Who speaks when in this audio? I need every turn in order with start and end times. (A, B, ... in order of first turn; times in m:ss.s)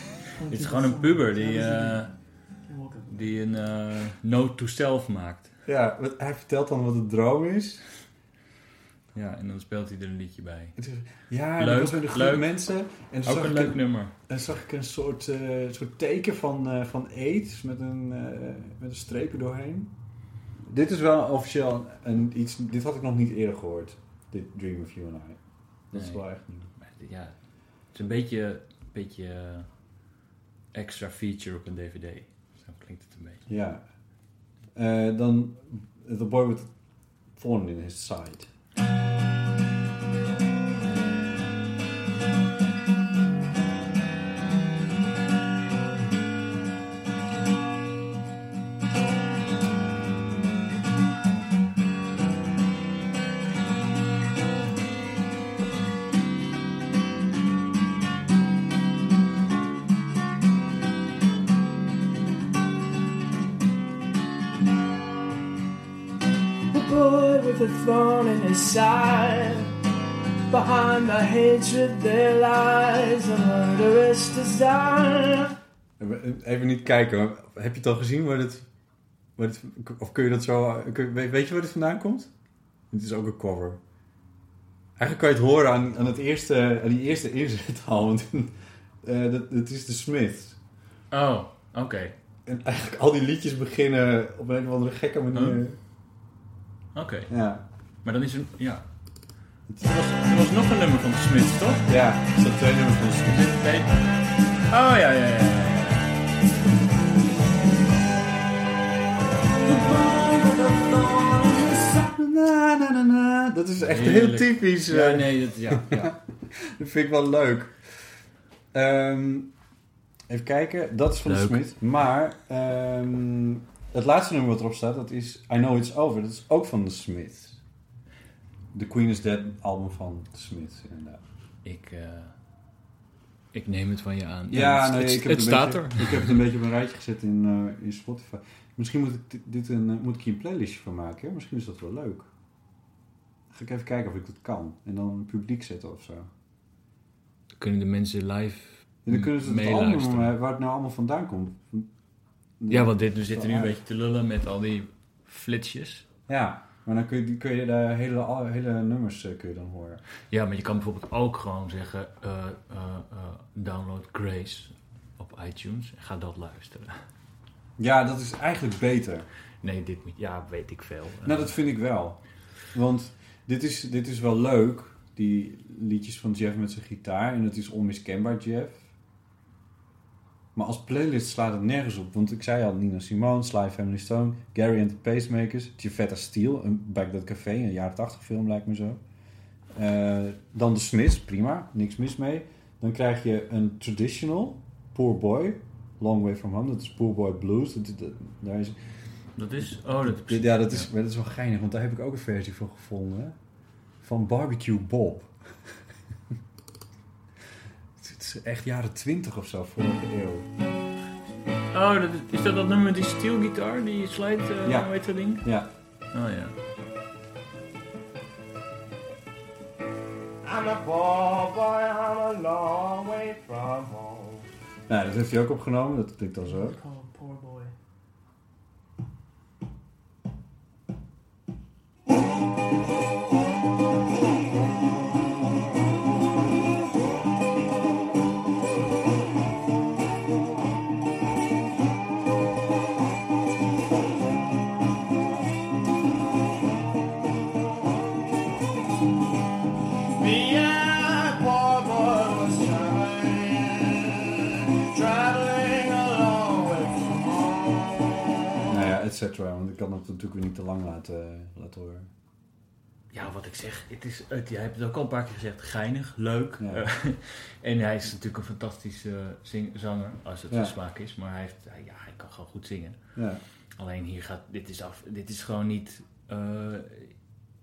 0:00.3-0:03.3 A
0:00.5-0:02.2 B
0:03.1-0:05.5 B
0:05.7-0:07.8 C
0:09.1-0:10.8 B
0:10.8-0:19.9 C
0:11.6-0:14.1 B
0:20.6-0:26.7 C
0:25.9-0:29.7 B
0:30.7-0:33.4 B
0:33.5-0:33.8 C
0:34.7-0:36.7 C
0:37.3-0:38.5 C
1:06.7-1:09.8 A
1:10.5-1:15.5 A
1:16.0-1:18.7 C
1:19.4-1:22.3 C
1:22.9-1:23.8 C
1:25.0-1:30.6 C
1:31.1-1:32.2 B
1:32.4-1:35.8 C
1:35.3-1:35.6 B
1:36.9-1:41.8 B
1:37.3-1:37.6 C
1:41.9-1:43.5 C
1:43.2-1:44.1 B
1:44.7-1:46.1 B
1:49.9-1:59.5 C
1:53.8-1:56.2 B
2:00.3-2:07.6 C
2:01.2-2:01.6 B
2:08.7-2:11.2 C
2:11.6-2:12.4 B
2:13.5-2:16.4 B
2:14.5-2:22.3 C
2:23.5-2:26.3 C
2:27.6-2:30.3 B
2:29.0-2:31.9 C
2:32.6-2:33.8 C
2:32.7-2:36.0 B
2:36.3-2:40.0 C
2:40.3-2:47.0 B
2:47.8-2:49.3 C
2:49.6-2:51.6 B
2:51.2-2:58.8 C
3:00.5-3:09.0 C
3:09.7-3:18.8 C
3:19.4-3:20.9 B
3:20.0-3:23.4 C
3:24.0-3:25.7 C
3:28.0-3:30.5 C
3:31.7-3:35.5 B
3:34.6-3:34.9 C
3:35.4-3:35.7 C
3:36.1-3:36.6 B
3:40.4-3:44.4 D
3:44.9-3:46.8 C
3:46.4-3:47.7 A
4:10.2-4:18.8 D
4:18.7-4:22.1 C
4:23.1-4:33.2 B
4:26.6-4:26.8 C
4:30.5-4:30.8 C
4:33.2-4:33.4 C
4:33.8-4:37.1 B